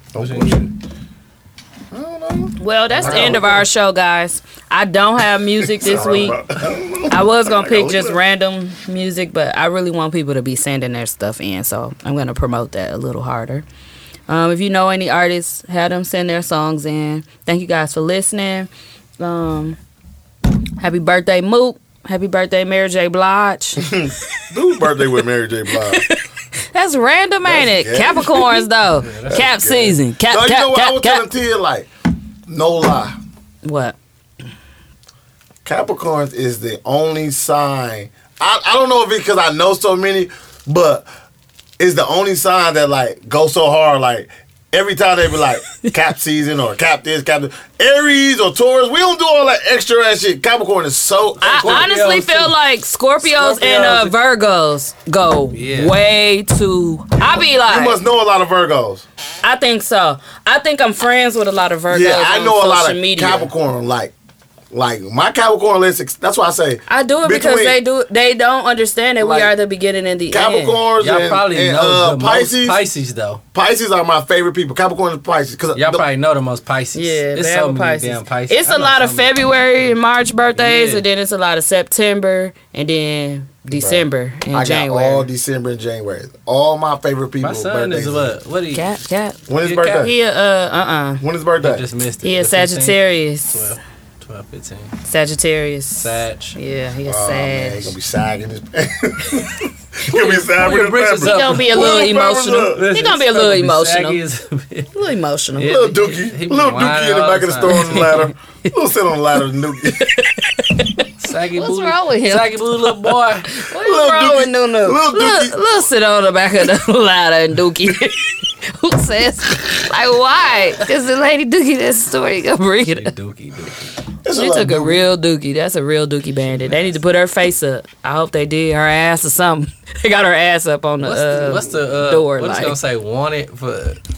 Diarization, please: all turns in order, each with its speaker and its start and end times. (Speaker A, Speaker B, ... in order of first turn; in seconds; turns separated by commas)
Speaker A: 0.1-0.7, Speaker B: 0.1-0.7, Speaker A: 1.9-3.6, Speaker C: 2.6-6.4, Speaker B: 3.0-3.5, Speaker A: 5.7-8.2, Speaker C: 7.1-13.7, Speaker C: 14.3-19.8, Speaker C: 20.8-23.9, Speaker A: 23.8-26.1, Speaker C: 25.8-26.2, Speaker C: 26.7-31.2, Speaker A: 27.4-28.7, Speaker B: 29.0-29.5, Speaker A: 29.3-31.9, Speaker A: 32.5-33.1, Speaker C: 33.6-34.0, Speaker A: 35.6-41.1, Speaker A: 41.8-51.9, Speaker B: 51.4-52.5, Speaker C: 51.4-58.0, Speaker B: 53.2-54.1, Speaker B: 55.5-55.9, Speaker A: 57.6-59.0, Speaker C: 59.4-63.5, Speaker A: 61.9-64.1, Speaker A: 64.7-67.8, Speaker C: 66.9-70.8, Speaker A: 69.2-69.5, Speaker A: 70.3-72.8, Speaker B: 71.0-73.4, Speaker A: 73.5-76.0, Speaker B: 75.7-79.3, Speaker C: 76.9-85.3, Speaker B: 80.5-81.0, Speaker A: 83.7-88.3, Speaker B: 87.4-89.0, Speaker C: 88.7-91.2, Speaker A: 89.5-90.1, Speaker B: 89.5-90.1, Speaker A: 91.2-91.8, Speaker B: 91.6-94.9, Speaker C: 92.2-93.8, Speaker C: 95.0-98.0, Speaker B: 96.0-96.6, Speaker A: 97.1-102.9, Speaker B: 100.1-102.1, Speaker C: 101.2-104.2, Speaker B: 102.7-104.9, Speaker C: 104.9-105.9, Speaker B: 105.6-108.2, Speaker A: 105.6-110.2, Speaker C: 107.7-108.3, Speaker C: 110.0-123.1, Speaker B: 111.2-113.6, Speaker A: 113.7-115.5, Speaker B: 122.9-124.0, Speaker A: 124.2-125.1, Speaker C: 124.3-132.8, Speaker B: 126.5-127.0, Speaker B: 131.0-134.0